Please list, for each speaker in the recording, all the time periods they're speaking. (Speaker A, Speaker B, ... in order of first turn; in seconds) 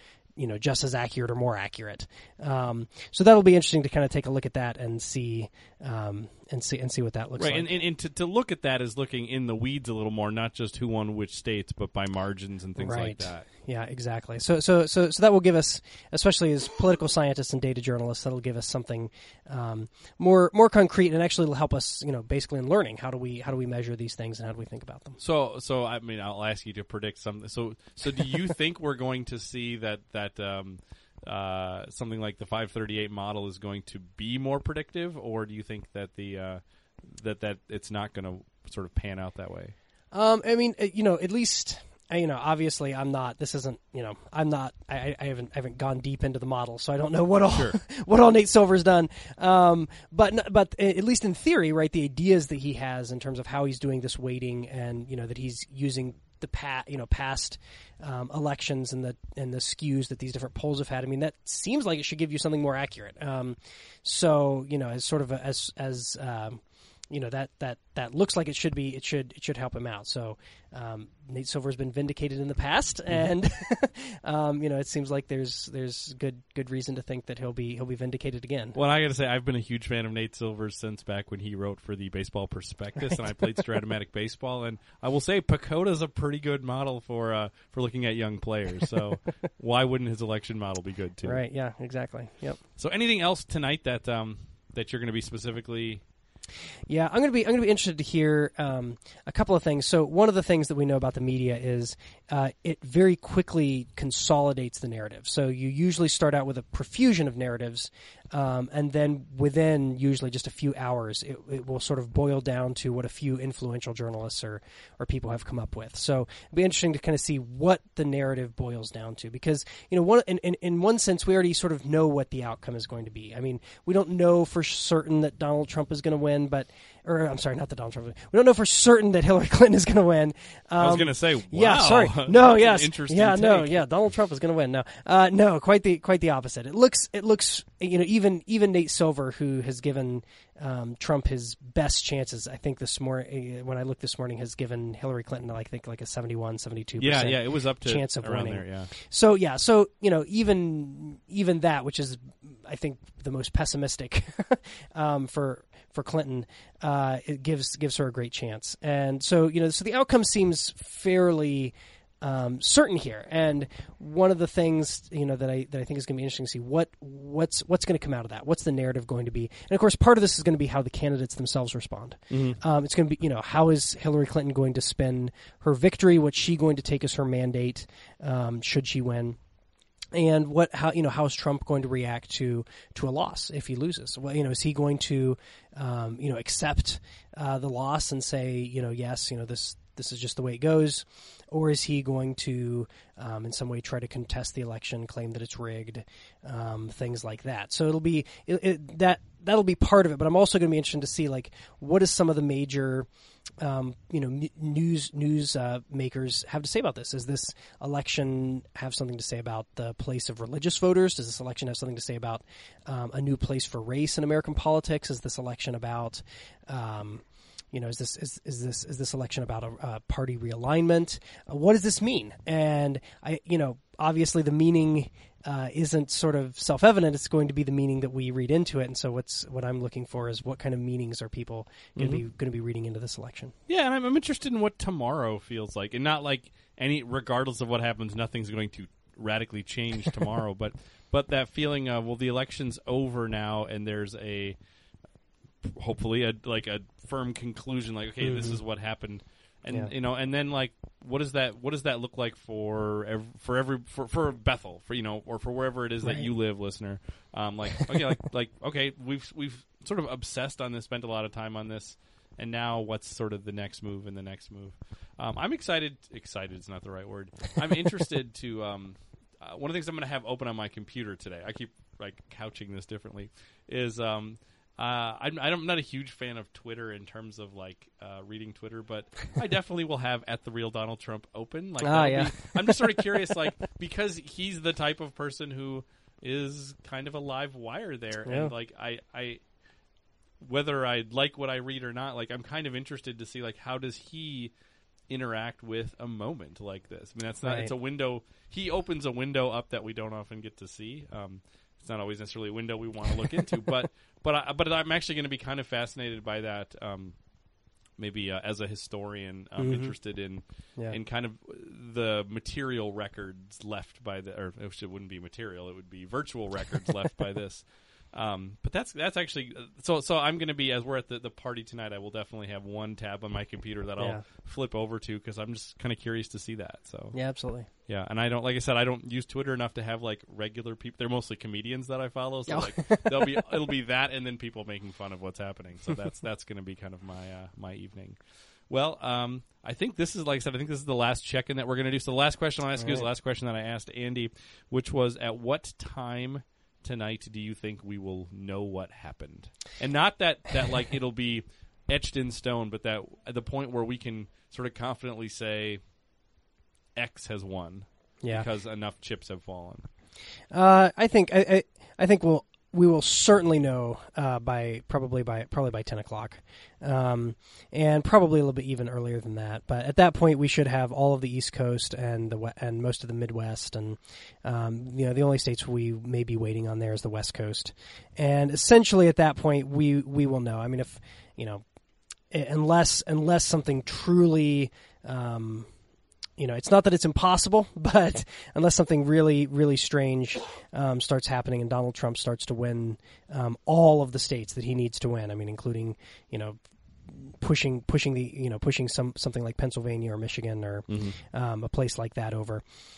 Speaker A: 0.4-7.7, 12.8-25.2, 40.1-78.8, 83.0-83.6, 91.2-92.6, 96.9-179.4, 180.1-203.1, 203.6-233.5, 248.2-248.6, 249.7-249.9, 256.0-256.3, 281.8-283.2, 288.2-288.5, 297.4-297.7, 309.6-309.9, 324.0-324.3, 327.1-327.7, 332.5-333.4, 342.8-343.1, 358.2-358.5, 360.5-381.6, 382.3-385.7, 386.4-402.6
Speaker B: 7.4-13.5, 25.2-39.8, 47.5-47.8, 78.7-91.4, 92.8-96.0, 130.8-134.1, 147.0-148.9, 172.3-172.6, 232.0-232.2, 233.7-244.6, 245.6-289.4, 290.4-294.5, 295.1-307.2, 308.0-327.2, 327.9-338.2, 338.7-355.8, 357.0-359.9, 400.9-401.2